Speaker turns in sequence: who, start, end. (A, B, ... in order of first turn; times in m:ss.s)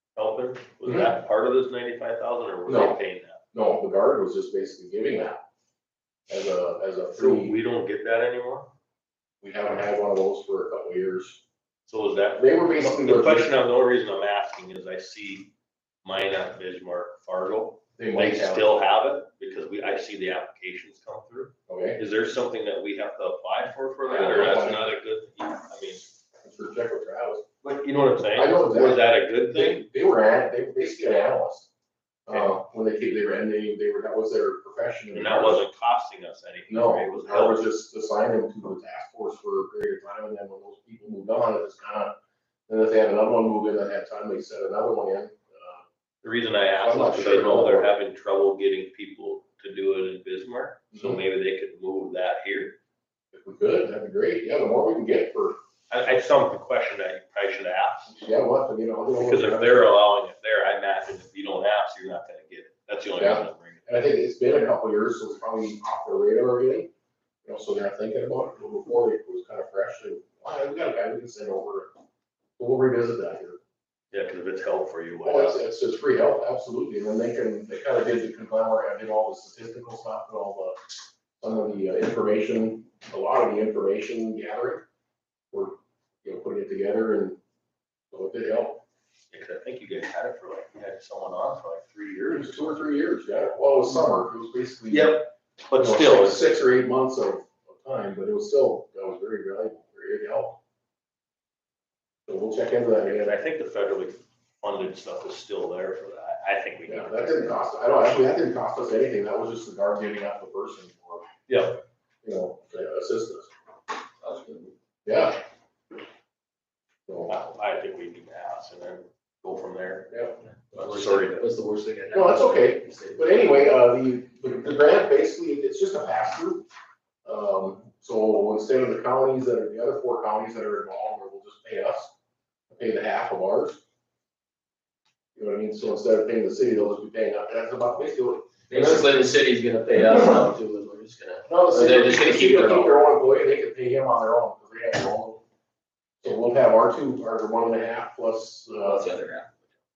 0:00.2-0:03.4 A
0:00.8-0:01.1 B
0:02.6-0:03.0 B
0:03.5-0:05.4 B
0:06.3-0:07.5 B
0:07.2-0:08.7 A
0:09.4-0:11.4 B
0:11.9-0:15.5 A
0:12.4-0:13.5 B
0:16.0-0:26.1 A
0:18.0-0:18.8 B
0:21.7-0:22.0 B
0:24.0-0:24.9 B
0:26.4-0:27.4 B
0:27.6-0:29.8 A
0:28.3-0:31.7 B
0:32.3-0:35.6 B
0:35.1-0:37.6 A
0:36.7-0:42.1 B
0:42.7-0:45.9 B
0:46.2-0:52.8 A
0:46.8-0:47.9 B
0:50.9-0:51.2 B
0:53.3-0:55.6 B
0:55.9-0:58.1 A
0:58.1-0:59.9 B
0:59.2-1:03.8 A
1:03.2-1:06.9 B
1:07.4-1:11.9 B
1:12.6-1:13.6 B
1:14.1-1:15.6 A
1:15.2-1:20.8 B
1:21.4-1:24.8 B
1:25.5-1:27.4 B
1:28.1-1:28.8 B
1:29.3-1:32.8 A
1:32.3-1:35.2 B
1:34.9-1:36.5 A
1:35.8-1:40.6 B
1:42.3-1:43.3 B
1:43.1-1:47.5 A
1:46.9-1:51.2 B
1:51.5-1:51.8 A
1:52.2-1:53.5 B
1:54.2-1:54.7 C
1:55.0-1:55.4 B
1:57.1-1:57.3 B
1:57.3-2:00.1 A
2:00.1-2:00.4 B
2:00.7-2:01.5 A
2:00.7-2:03.6 C
2:02.1-2:06.6 B
2:07.2-2:12.1 B
2:12.7-2:13.8 B
2:15.4-2:19.1 B
2:18.7-2:23.0 C
2:21.5-2:25.4 B
2:26.2-2:29.1 B
2:28.8-2:29.5 C